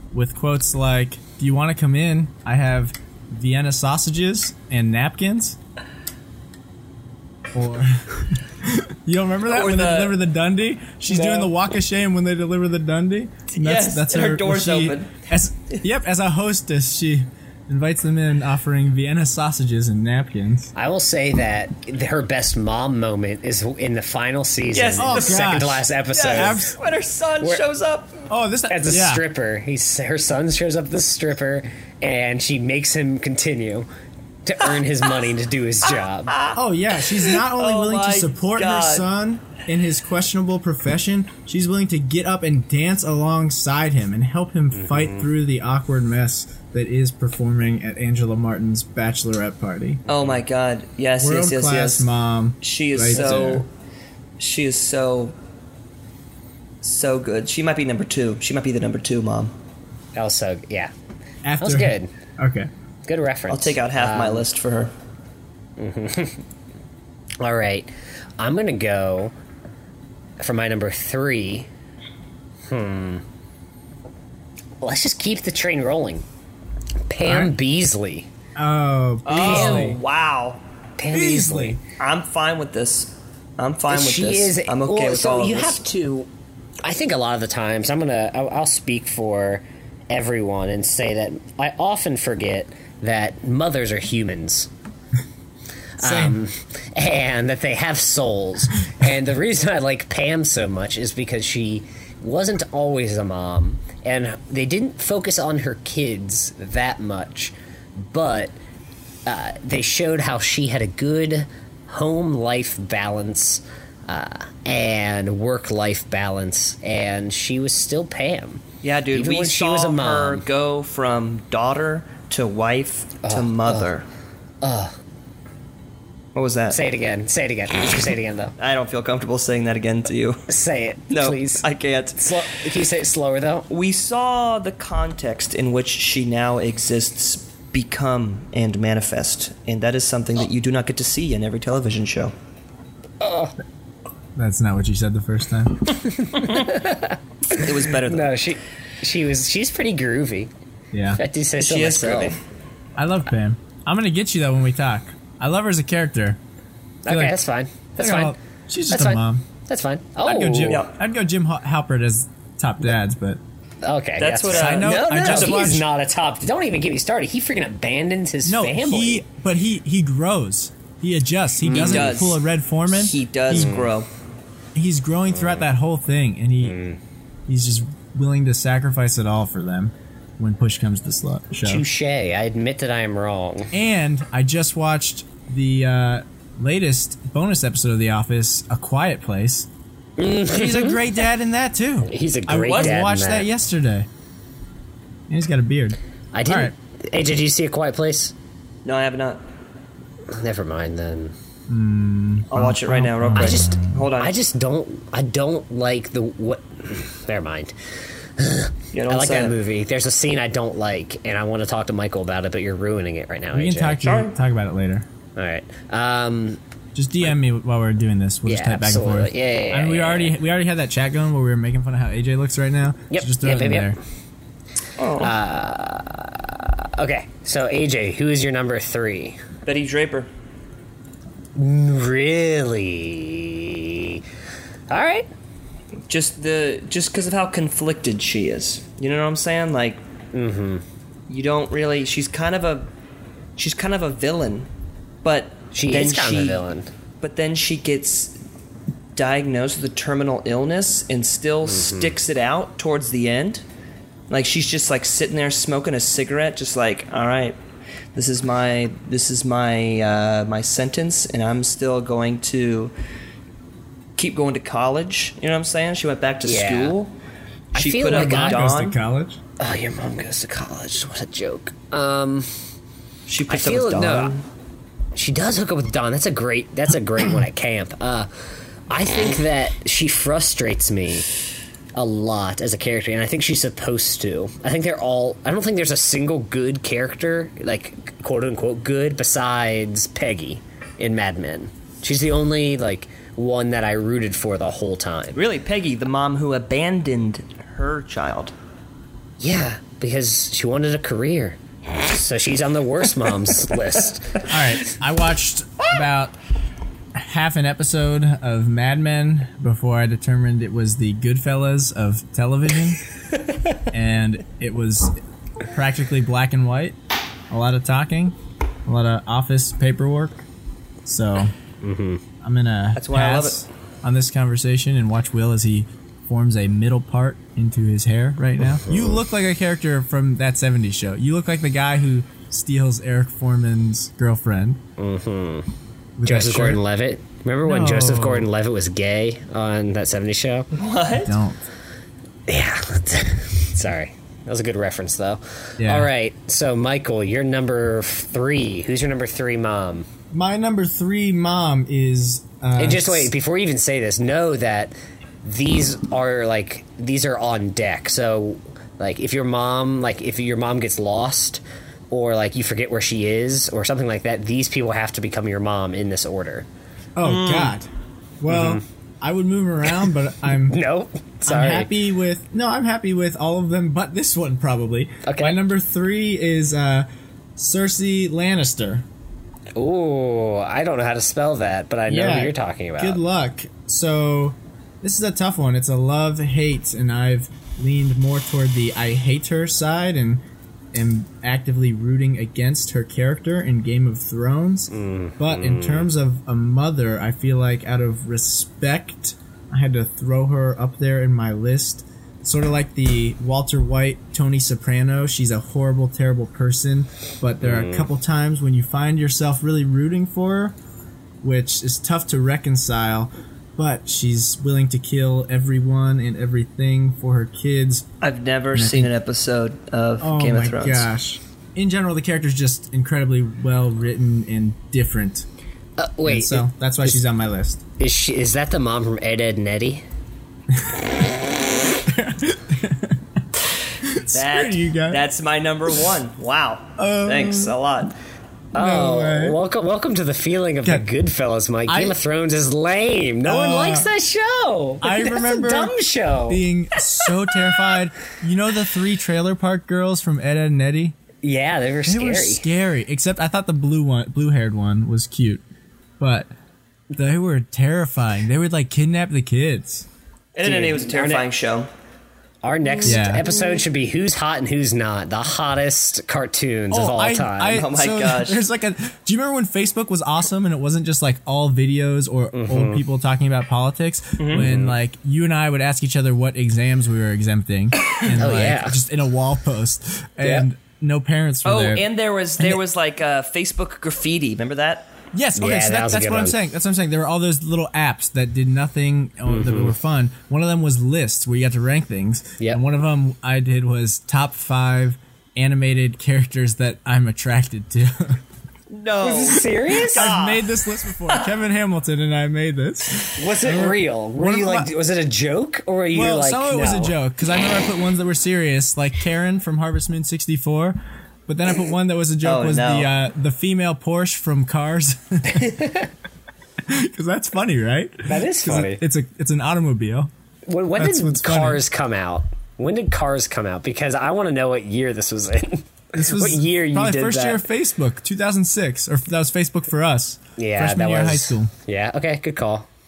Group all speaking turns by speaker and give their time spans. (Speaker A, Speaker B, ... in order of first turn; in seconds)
Speaker A: 0.1-5.6, 7.5-20.7, 25.0-26.8, 28.3-29.2, 36.5-50.0, 51.2-53.6, 61.4-62.7, 77.2-77.5, 78.5-80.0, 81.1-81.8, 96.0-96.4, 144.3-146.0, 150.9-151.2, 153.0-156.4, 157.1-157.4, 158.0-159.4, 160.2-163.4, 164.5-165.8, 168.4-173.7, 174.7-176.8, 177.5-181.8, 183.7-189.7, 190.5-194.1, 195.3-196.7, 201.7-204.0, 213.5-215.1, 216.9-224.0, 268.1-269.4, 304.4-306.4, 307.1-313.0, 313.9-315.2, 315.7-316.9, 317.5-320.4, 321.0-321.5, 322.4-334.8, 336.2-336.8, 337.6-338.5, 341.2-341.6, 345.8-346.1, 350.3-353.3, 367.1-367.9, 368.4-370.8, 371.4-379.0, 382.1-390.4, 390.9-410.7, 411.4-418.1, 418.7-419.1, 420.2-425.5, 426.2-427.8, 430.7-431.1, 432.1-433.2, 434.0-435.2, 437.0-437.7, 438.7-439.6, 441.9-442.2, 443.4-444.1, 445.0-451.2, 452.1-455.6, 456.2-456.5, 457.1-460.1, 463.1-463.5, 466.9-482.1, 485.3-498.4, 499.5-504.9, 506.1-515.9, 516.9-520.3, 521.0-521.8, 526.1-531.7
Speaker B: 9.5-10.2, 13.6-15.1, 24.7-25.5, 26.1-28.2, 37.2-39.1, 50.1-52.1, 52.6-53.7, 54.4-55.3, 56.8-59.5, 63.5-64.9, 79.2-80.6, 82.0-85.8, 118.8-124.0, 126.3-126.8, 128.6-130.5, 131.1-132.4, 133.7-142.3, 147.5-148.3, 151.6-152.4, 164.2-165.7, 171.7-174.1, 192.7-193.0, 198.8-199.4, 202.5-204.3, 208.9-209.6, 214.0-214.3, 225.0-225.3, 229.7-230.3, 236.1-240.0, 241.3-242.9, 243.6-244.7, 245.2-246.6, 247.2-248.4, 249.1-253.6, 254.3-257.6, 258.1-262.9, 264.2-267.1, 267.7-269.0, 273.3-274.4, 295.3-298.5, 322.9-323.6, 340.7-341.4, 367.2-367.7, 418.2-421.1, 434.3-438.1, 460.5-461.9, 467.7-468.6, 474.4-474.6, 481.6-485.1, 498.9-500.7, 512.4-513.1
Speaker C: 11.1-11.5, 20.7-26.6, 28.7-33.9, 34.4-36.4, 44.7-45.3, 60.1-60.9, 61.6-62.1, 63.0-64.5, 65.8-66.4, 67.4-69.3, 70.4-71.7, 72.7-73.2, 74.8-76.2, 77.1-78.3, 79.4-80.0, 81.0-81.8, 83.9-86.3, 86.8-94.7, 96.0-108.5, 109.2-120.4, 123.2-123.9, 124.6-125.0, 126.7-128.5, 130.5-131.6, 132.2-133.7, 143.2-143.5, 146.2-150.5, 151.2-152.3, 157.0-158.3, 158.9-160.8, 163.8-169.2, 171.6-172.1, 173.5-173.9, 175.4-175.6, 176.6-177.0, 181.6-183.7, 190.2-191.0, 192.1-193.5, 196.3-198.3, 200.3-201.3, 203.3-207.7, 208.4-214.0, 215.3-216.6, 218.4-220.3, 223.1-223.9, 225.2-229.4, 231.6-234.2, 234.9-235.3, 240.3-240.8, 245.7-246.9, 251.6-252.2, 266.4-266.9, 267.7-268.6, 269.6-272.5, 273.5-274.3, 275.1-278.3, 278.9-281.3, 281.9-295.4, 299.4-304.4, 321.8-322.2, 328.7-329.2, 335.0-335.7, 336.2-340.7, 342.5-350.1, 352.8-366.7, 368.5-368.8, 370.7-371.9, 375.2-375.6, 379.7-383.2, 394.9-396.1, 407.6-408.1, 426.0-427.1, 428.0-430.0, 438.7-446.6, 451.4-452.6, 460.6-461.5, 462.6-467.8, 472.5-473.0, 474.6-474.9, 478.3-479.0, 480.4-480.7, 485.6-486.6, 489.5-489.9, 499.2-500.3, 503.4-507.1, 515.6-516.1, 518.3-519.0, 520.7-527.6, 530.6-532.9